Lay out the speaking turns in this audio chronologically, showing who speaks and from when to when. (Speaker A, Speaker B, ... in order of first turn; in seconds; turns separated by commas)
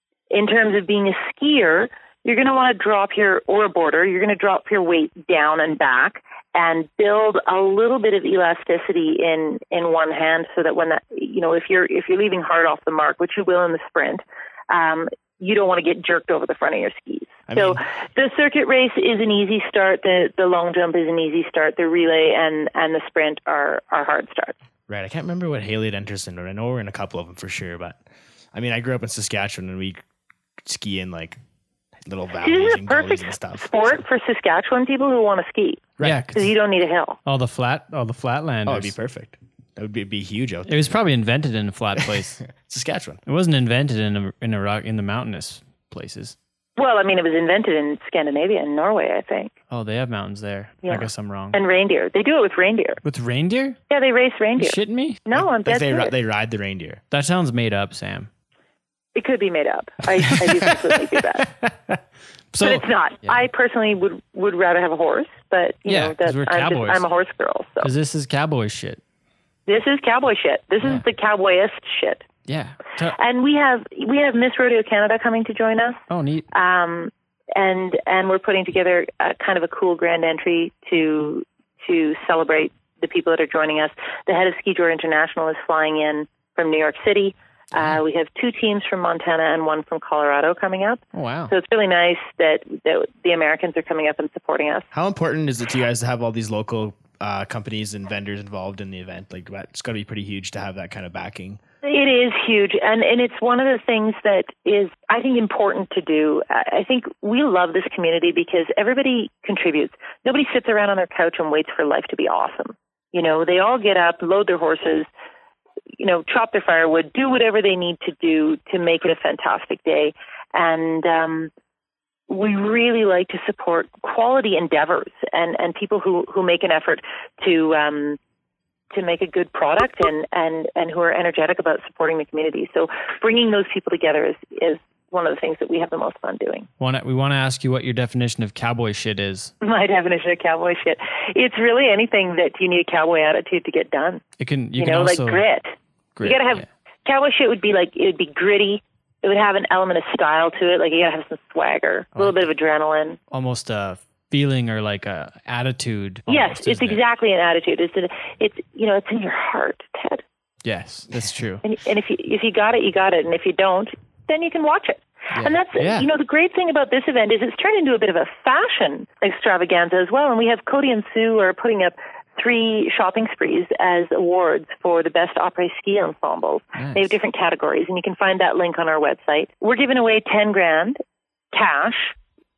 Speaker A: 0.3-24.6, Speaker B: 17.5-17.8, Speaker B: 24.9-28.0, Speaker B: 28.5-30.0, Speaker B: 30.6-31.4, Speaker B: 32.1-34.0, Speaker A: 32.4-37.2, Speaker C: 36.0-36.5, Speaker C: 37.3-39.0, Speaker B: 38.7-40.8, Speaker C: 40.7-42.4, Speaker B: 42.4-43.2, Speaker C: 43.3-46.4, Speaker A: 46.8-49.5, Speaker C: 49.7-51.6, Speaker A: 50.9-53.0, Speaker C: 53.0-53.8, Speaker A: 53.9-56.1, Speaker C: 54.6-55.2, Speaker B: 55.3-57.0, Speaker C: 57.1-58.3, Speaker A: 59.1-61.5, Speaker C: 61.6-62.0, Speaker C: 62.5-63.4, Speaker A: 62.6-67.9, Speaker C: 65.9-67.0, Speaker C: 67.8-69.0, Speaker A: 69.7-72.2, Speaker C: 72.5-73.2, Speaker A: 73.2-94.9, Speaker C: 76.1-76.5, Speaker C: 91.1-91.5, Speaker B: 94.9-101.6, Speaker A: 101.8-115.1, Speaker A: 116.0-121.5, Speaker A: 122.3-128.2, Speaker A: 128.9-136.7, Speaker C: 136.8-139.5, Speaker A: 139.6-144.2, Speaker C: 144.4-145.4, Speaker A: 144.8-145.7, Speaker C: 146.2-146.7, Speaker A: 146.2-153.2, Speaker C: 152.2-152.4, Speaker C: 153.3-157.0, Speaker A: 156.3-160.2, Speaker C: 160.6-161.6, Speaker A: 161.6-181.0, Speaker C: 165.3-166.1, Speaker A: 181.5-182.1